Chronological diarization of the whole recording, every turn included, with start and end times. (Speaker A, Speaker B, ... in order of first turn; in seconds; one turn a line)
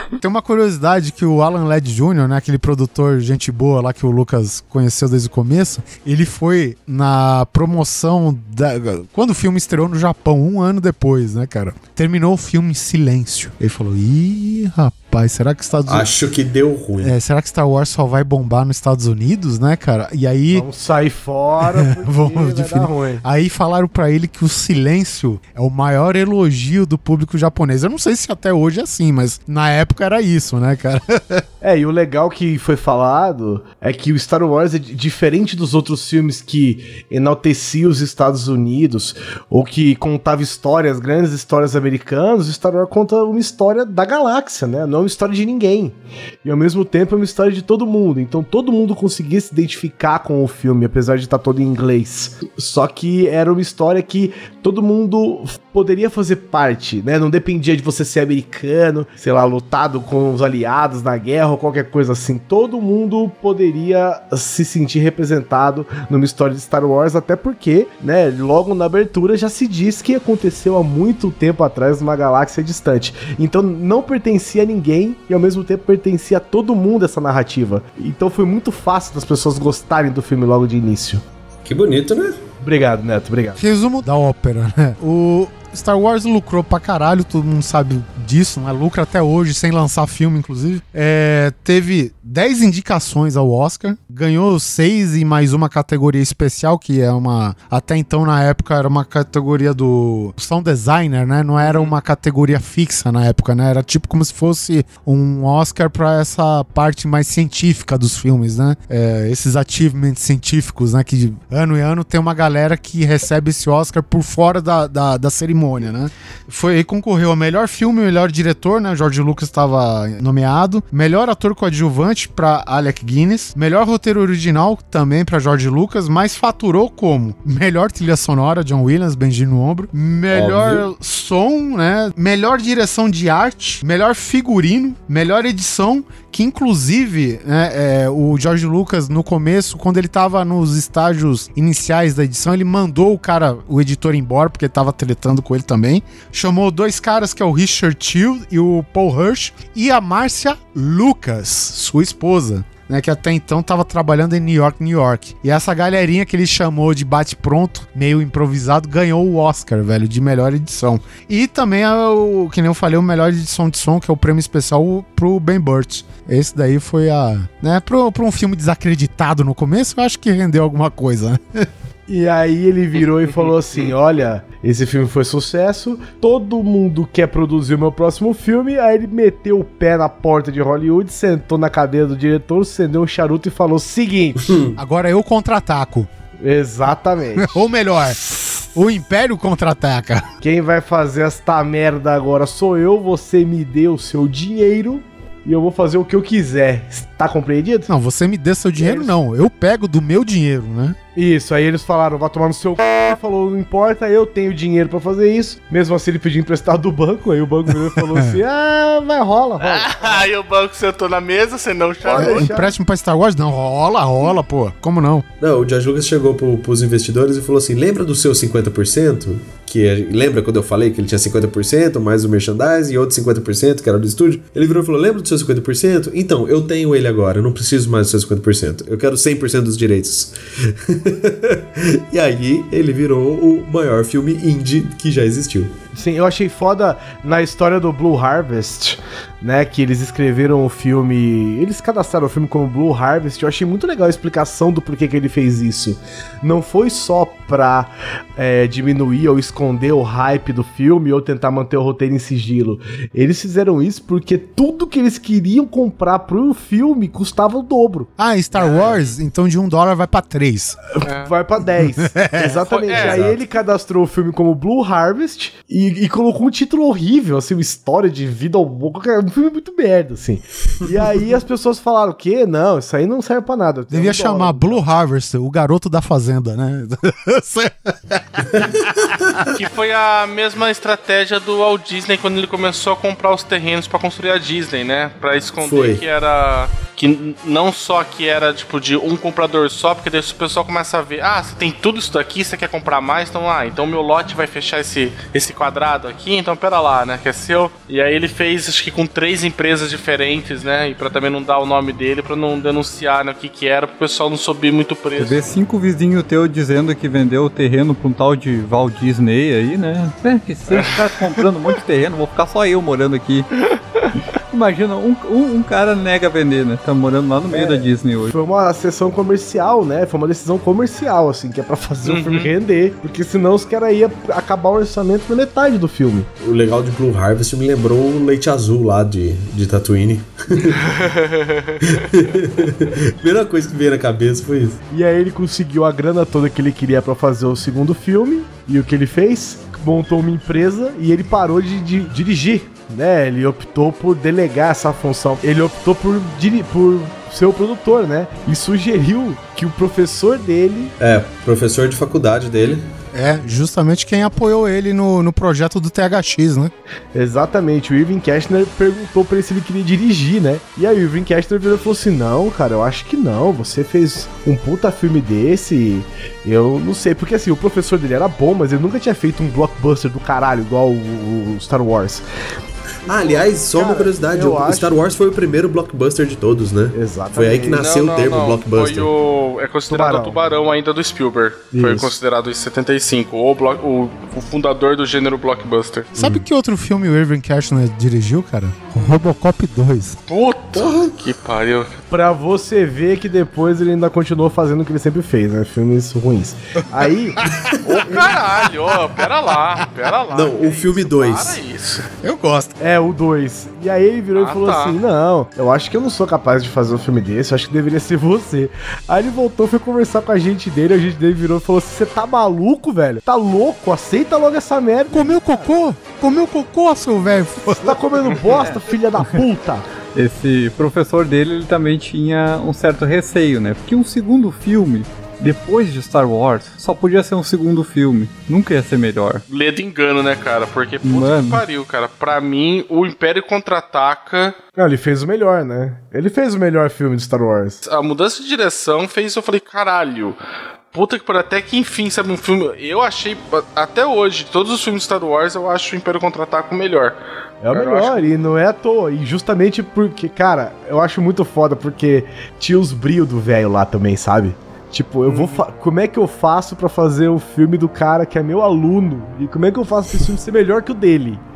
Speaker A: 0.2-16.1
Speaker B: 15.9-17.1
Speaker A: 17.0-20.7
Speaker C: 20.5-23.2
Speaker A: 21.7-31.4
Speaker C: 31.6-81.2
Speaker B: 81.7-82.4
Speaker C: 82.6-83.6
Speaker A: 83.6-171.7
Speaker D: 101.6-101.9
Speaker B: 130.3-130.9
Speaker C: 172.1-184.6
Speaker B: 184.4-184.8
Speaker A: 184.8-186.1
Speaker C: 186.4-187.6
Speaker A: 187.4-190.3
Speaker C: 190.4-197.9
Speaker A: 197.9-201.0
Speaker C: 198.8-199.1
Speaker C: 201.2-210.3
Speaker A: 207.9-208.4
Speaker D: 209.6-212.5
Speaker C: 212.0-212.7
Speaker A: 212.1-215.2
Speaker B: 215.4-235.7
Speaker C: 235.9-258.1
Speaker A: 258.2-260.8
Speaker C: 261.0-274.8
Speaker D: 261.0-261.3
Speaker A: 262.0-262.6
Speaker D: 262.7-263.2
Speaker B: 262.9-263.4
Speaker A: 273.9-279.4
Speaker B: 278.5-279.5
Speaker D: 279.5-305.5
Speaker B: 285.6-286.0
Speaker E: 305.2-313.5
Speaker E: 314.5-318.3
Speaker C: 317.5-326.3
Speaker D: 322.1-322.5
Speaker B: 326.4-330.9
Speaker D: 330.8-332.0
Speaker B: 331.9-334.8
Speaker C: 334.9-350.9
Speaker B: 351.0-352.9
Speaker A: 353.1-356.7
Speaker C: 357.1-372.2
Speaker B: 373.1-379.1
Speaker C: 373.1-374.9
Speaker C: 376.9-377.9
Speaker D: 377.7-386.1
Speaker C: 379.9-380.4
Speaker C: 381.7-382.1
Speaker B: 386.1-386.4
Speaker A: 386.1-390.2
Speaker D: 390.3-392.0
Speaker B: 390.8-391.1
Speaker C: 392.1-397.4
Speaker A: 397.4-398.4
Speaker D: 397.9-402.0
Speaker B: 400.3-401.6
Speaker A: 402.2-402.8
Speaker C: 402.8-415.2
Speaker D: 404.4-405.0
Speaker A: 415.1-418.1
Speaker C: 417.8-419.8
Speaker E: 420.1-429.4
Speaker D: 429.5-434.6
Speaker E: 431.0-431.6
Speaker C: 434.8-437.8
Speaker D: 437.8-440.4
Speaker D: 440.9-447.2
Speaker C: 447.6-461.4
Speaker D: 447.7-448.3
Speaker D: 455.3-455.6